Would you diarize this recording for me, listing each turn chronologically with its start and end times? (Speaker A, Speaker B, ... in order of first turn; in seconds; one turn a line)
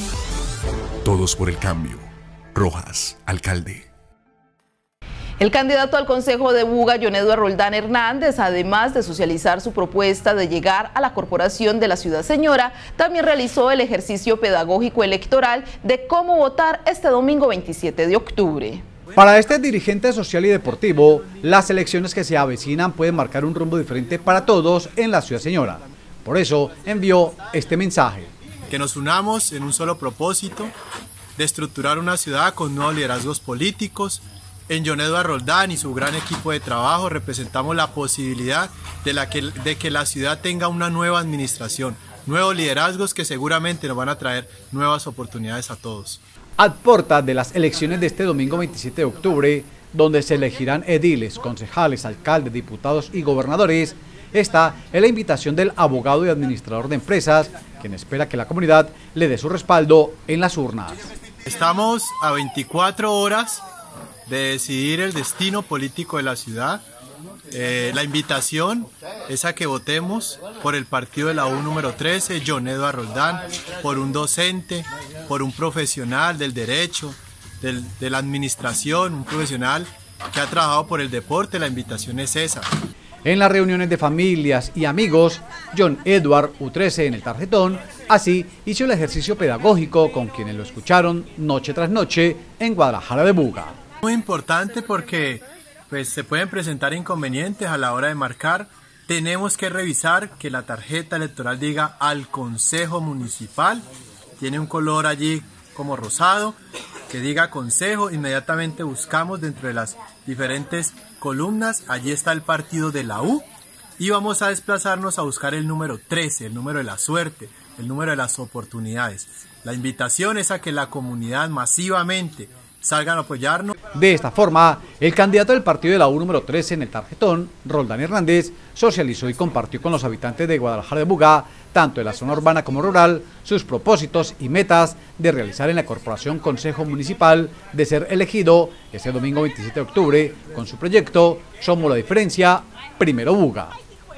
Speaker A: 1.0-3.9
Speaker B: 5.4-18.8
Speaker C: 19.2-28.3
Speaker D: 28.7-30.7
Speaker D: 31.4-46.2
Speaker C: 46.6-61.1
Speaker D: 61.5-63.6
Speaker D: 64.3-66.8
Speaker D: 67.5-82.7
Speaker C: 83.2-93.8
Speaker D: 94.0-103.9
Speaker D: 104.4-106.6
Speaker D: 107.1-113.5
Speaker D: 114.0-123.7
Speaker C: 123.9-143.8